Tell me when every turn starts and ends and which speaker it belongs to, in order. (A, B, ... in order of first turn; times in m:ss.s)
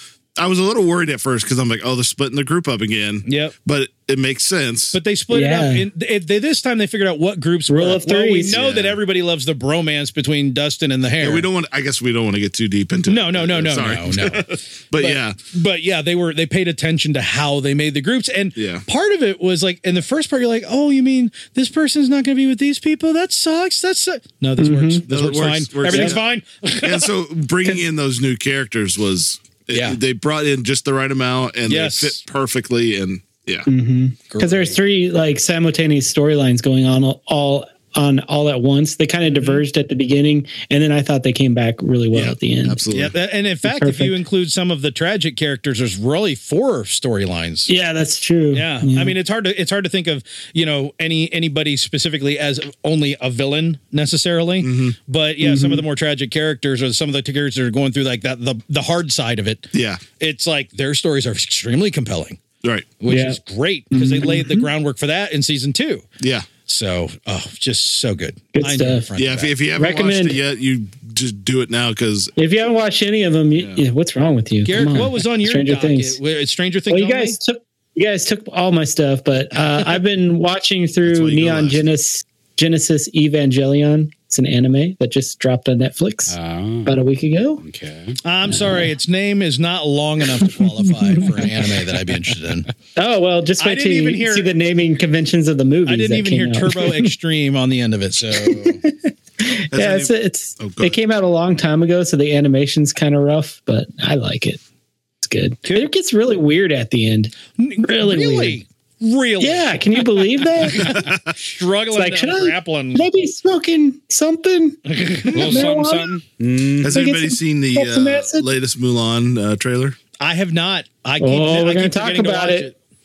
0:00.4-0:05.0 A
0:03.2-0:03.5 B
0:04.9-0:11.4 B
0:05.3-0:05.9 C
0:07.7-0:08.6 C
0:08.5-0:09.0 A
0:11.2-0:15.4 A
0:13.1-0:27.1 B
0:18.6-0:18.8 A
0:24.6-0:25.0 C
0:25.1-0:26.2 A
0:25.9-0:26.2 C
0:26.8-0:33.7 A
0:29.7-0:30.0 B
0:31.7-0:32.2 B
0:33.7-0:42.8 C
0:34.3-0:34.8 B
0:39.3-0:39.6 B
0:42.1-0:43.1 A
0:42.9-0:47.7 B
0:43.6-0:44.2 C
0:47.7-0:49.1 C
0:48.5-1:02.4 B
0:54.6-0:55.0 A
0:55.4-0:55.8 C
0:59.7-1:00.0 A
1:02.6-1:02.9 A
1:03.0-1:06.0 B
1:03.1-1:03.4 C
1:03.9-1:04.7 C
1:06.2-1:06.5 A
1:06.6-1:09.6 B
1:08.5-1:09.0 C
1:09.2-1:12.3 A
1:09.8-1:10.4 C
1:12.4-1:16.2 C
1:13.5-1:13.8 A
1:14.6-1:17.4 B
1:16.9-1:27.6 C
1:21.0-1:21.8 A
1:26.3-1:27.0 D
1:27.6-1:28.2 D
1:28.2-1:32.7 B
1:33.0-1:37.1 C
1:33.6-1:34.5 B
1:35.8-1:38.8 B
1:38.4-1:44.6 C
1:39.7-1:41.0 A
1:45.2-1:48.6 C
1:47.6-1:49.8 B
1:49.4-1:51.0 C
1:50.8-1:51.3 A
1:50.9-1:53.1 B
1:51.9-1:56.1 C
1:54.9-1:55.7 B
1:55.3-1:56.9 D
1:56.8-2:00.0 A
1:56.8-1:58.4 C
2:00.2-2:02.8 B
2:01.2-2:02.7 C